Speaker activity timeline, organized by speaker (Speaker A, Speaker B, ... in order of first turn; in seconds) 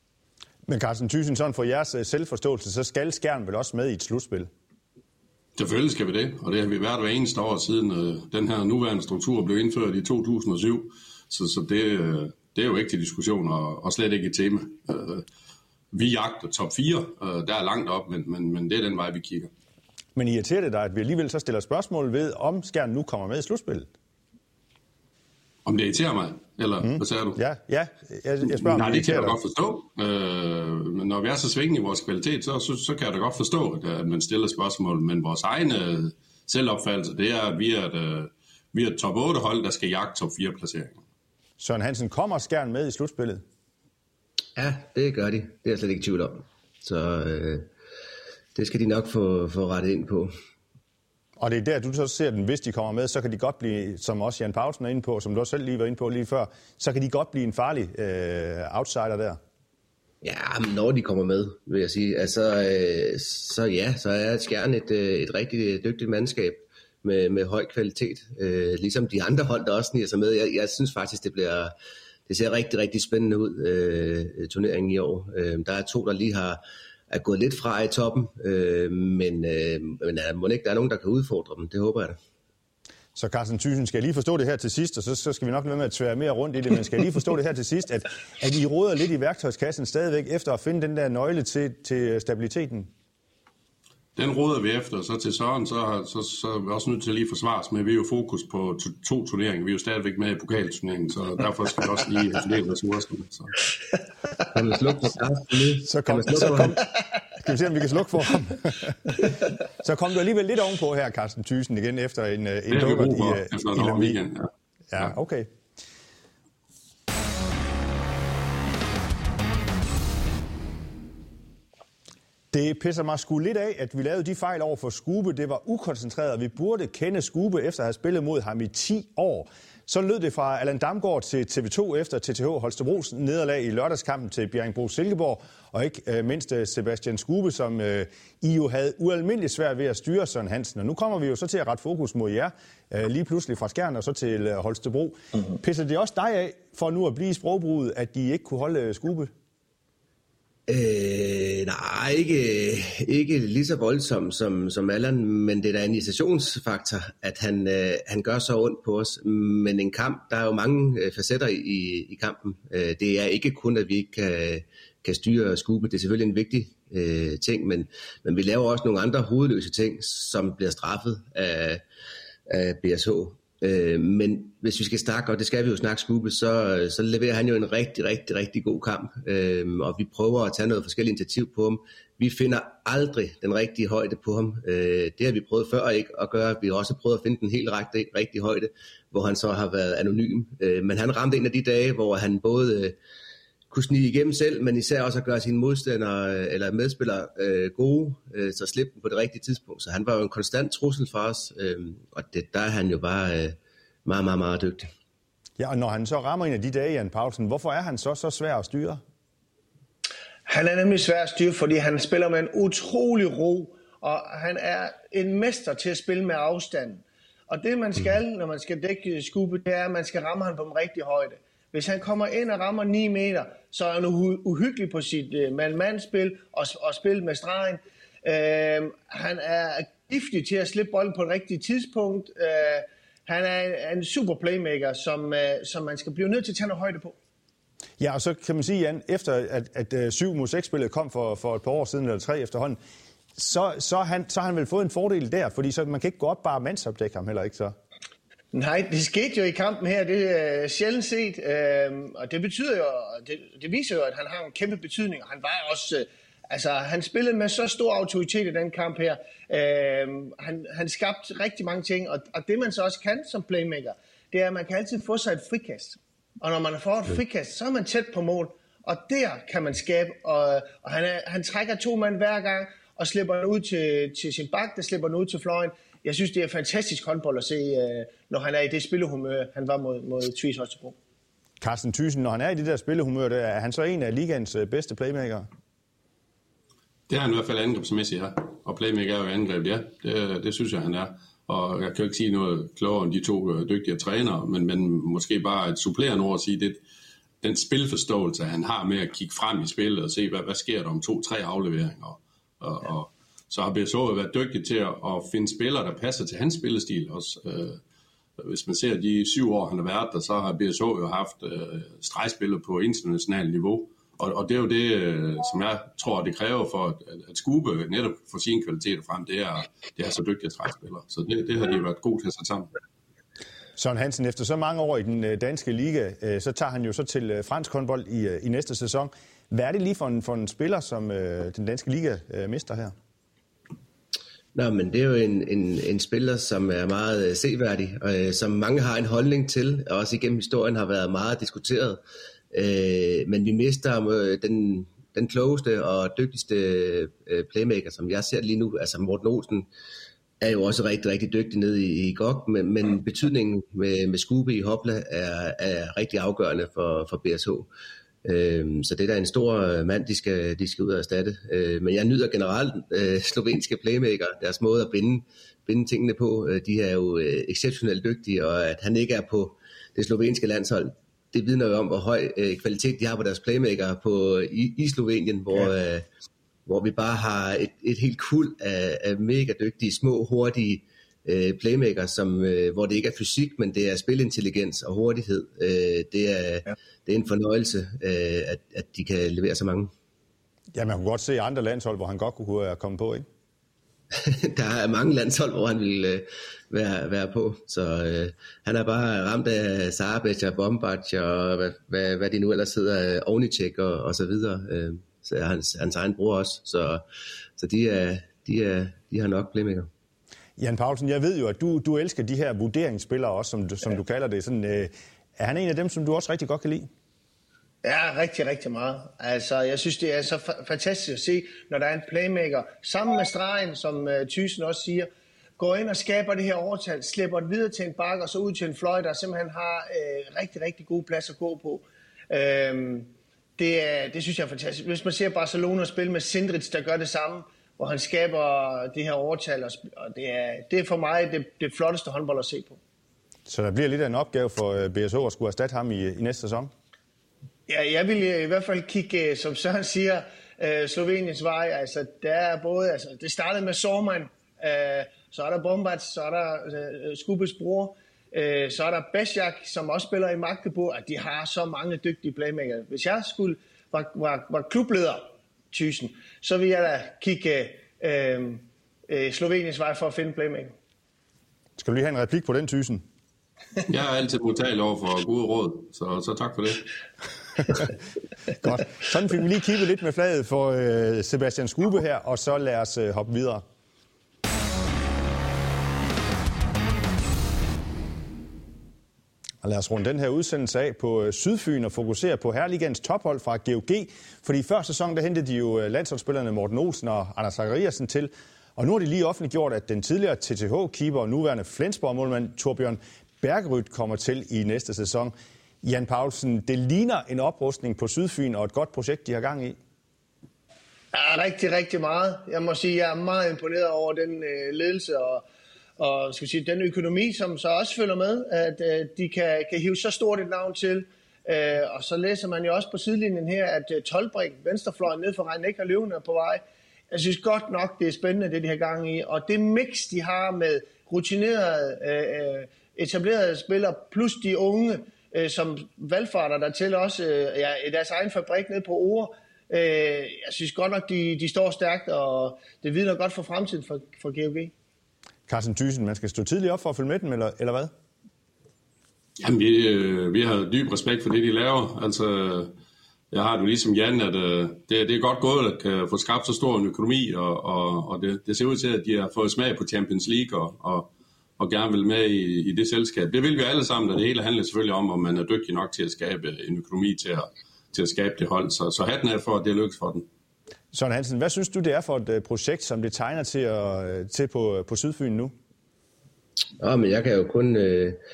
Speaker A: 0.7-4.5, 20.1-23.9, 26.8-29.4, 41.6-43.4, 51.4-59.4, 83.2-92.9, 105.9-109.2, 109.8-114.2, 114.9-115.5, 122.5-149.3, 205.6-209.0, 238.0-242.8, 243.4-247.7, 281.6-285.5, 323.8-332.9, 390.8-393.3, 410.6-416.9, 443.5-446.7, 471.8-473.1, 478.6-483.6, 489.6-509.8, 545.5-547.9, 570.9-575.5
Speaker B: 5.6-15.2, 15.9-19.5, 25.6-27.4, 28.5-41.0, 94.2-103.6, 112.7-114.5, 287.1-296.8, 297.4-307.8, 308.4-322.7, 473.9-476.9, 549.4-552.7, 553.3-570.3
Speaker C: 44.6-47.7, 48.5-50.3, 60.2-71.7, 72.3-82.2, 104.5-106.8, 150.7-171.8, 172.5-193.0, 193.7-204.9, 334.5-342.0, 342.5-349.7, 350.4-357.7, 358.2-376.1, 376.7-389.9, 394.1-407.0, 407.6-409.9, 576.8-578.2
Speaker D: 210.5-237.2, 248.5-281.0, 417.8-442.8, 447.7-470.7, 511.1-515.5, 516.0-544.7